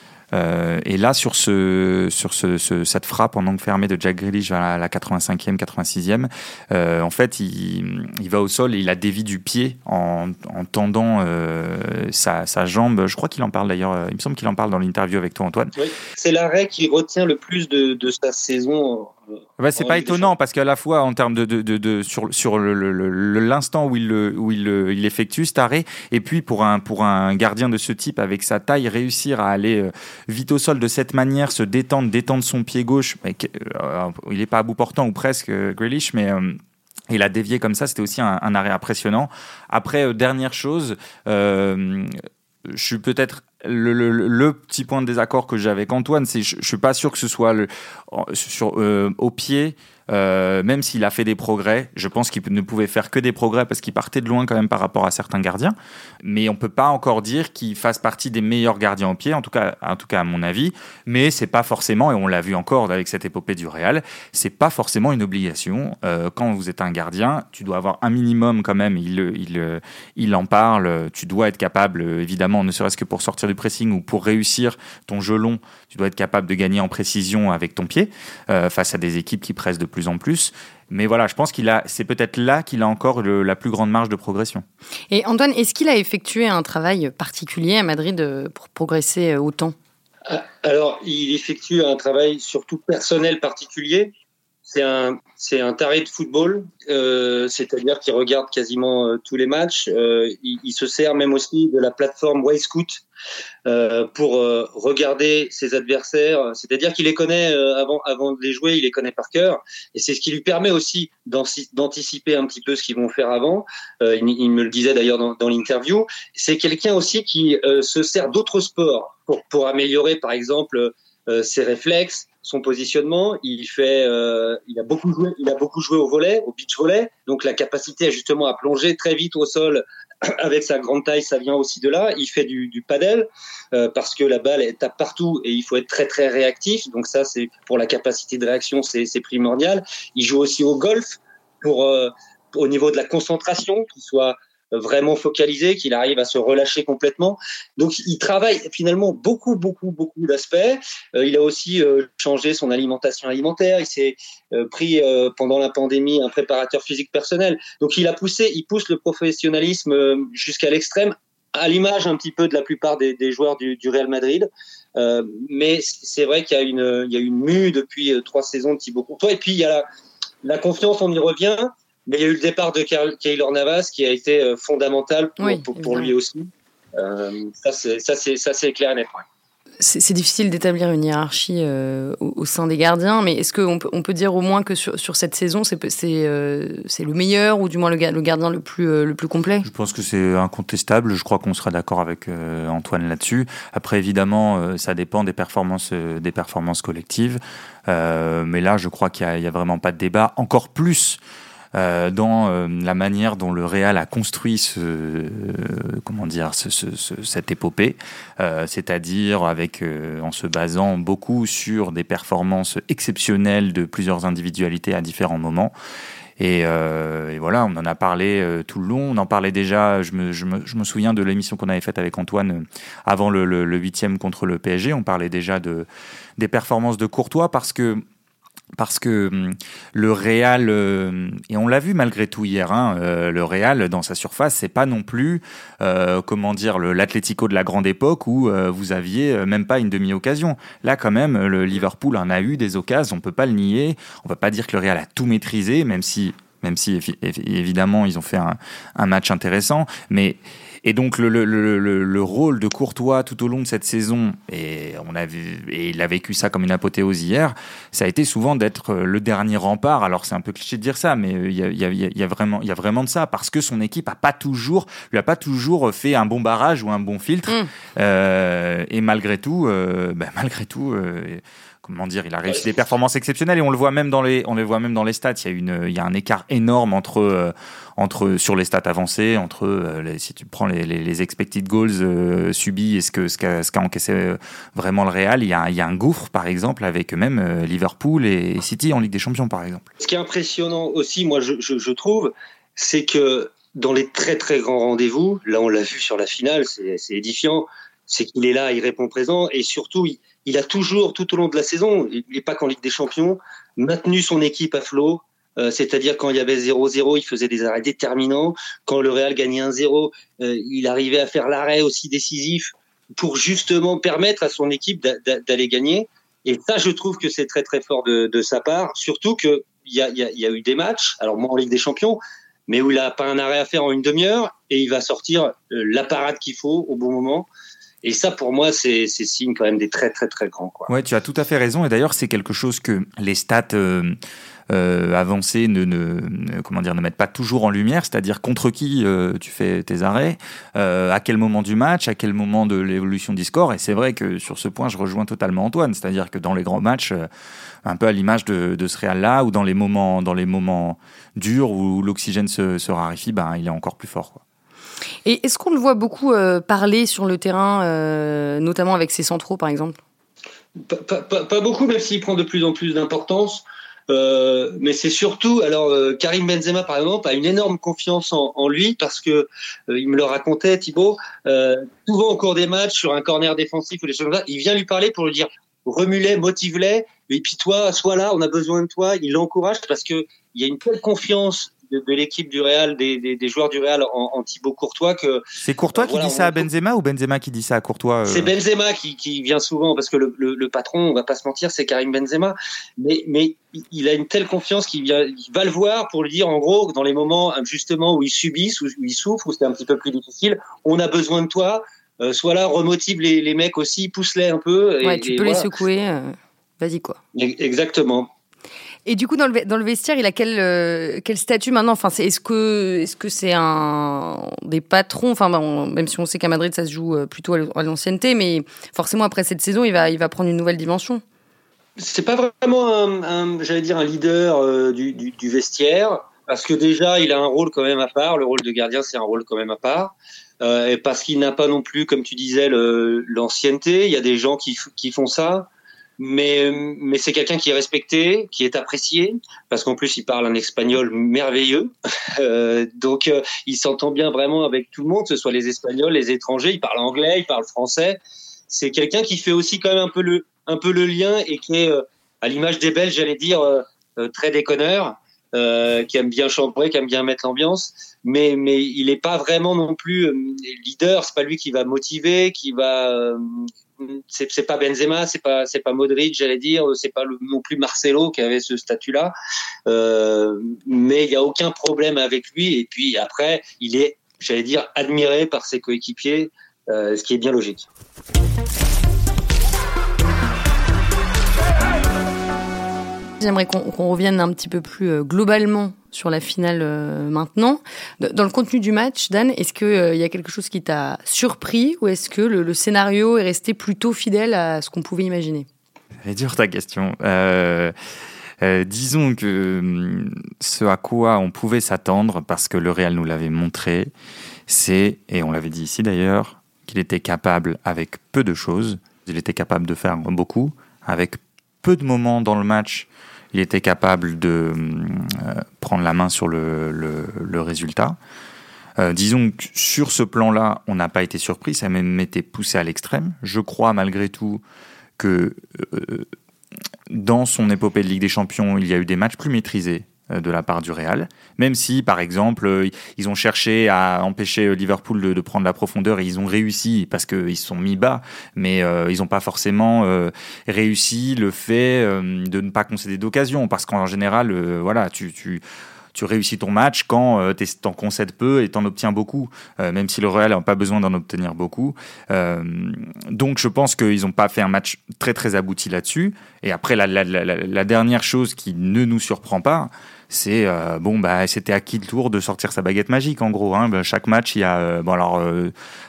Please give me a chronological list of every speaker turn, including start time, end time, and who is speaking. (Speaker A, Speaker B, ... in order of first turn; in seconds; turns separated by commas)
Speaker A: 0.3-15.7, Speaker B: 15.8-19.1, Speaker A: 19.6-36.6, Speaker B: 19.8-20.3, Speaker A: 37.1-84.6, Speaker C: 85.1-89.7, Speaker B: 90.2-94.1, Speaker B: 94.7-103.0, Speaker B: 103.7-169.8, Speaker B: 170.4-179.2, Speaker C: 175.4-176.1, Speaker C: 179.8-189.7, Speaker A: 189.6-201.2, Speaker A: 201.7-215.7, Speaker A: 216.4-225.9, Speaker A: 226.4-228.0, Speaker A: 228.8-289.9, Speaker B: 290.0-327.5, Speaker B: 328.0-330.9, Speaker A: 330.9-334.1, Speaker A: 334.7-347.3, Speaker A: 347.8-354.4, Speaker C: 355.2-360.0, Speaker B: 360.8-385.4, Speaker A: 385.6-388.5, Speaker B: 385.9-386.7, Speaker B: 388.3-405.7, Speaker C: 405.0-407.2, Speaker B: 407.3-408.3, Speaker C: 409.1-421.2, Speaker B: 422.0-469.3, Speaker B: 469.9-477.9, Speaker C: 483.4-495.7, Speaker A: 496.2-497.9, Speaker A: 498.6-504.1, Speaker A: 504.7-518.2, Speaker A: 519.0-524.6, Speaker A: 525.2-526.3, Speaker A: 527.1-545.6, Speaker A: 546.1-565.7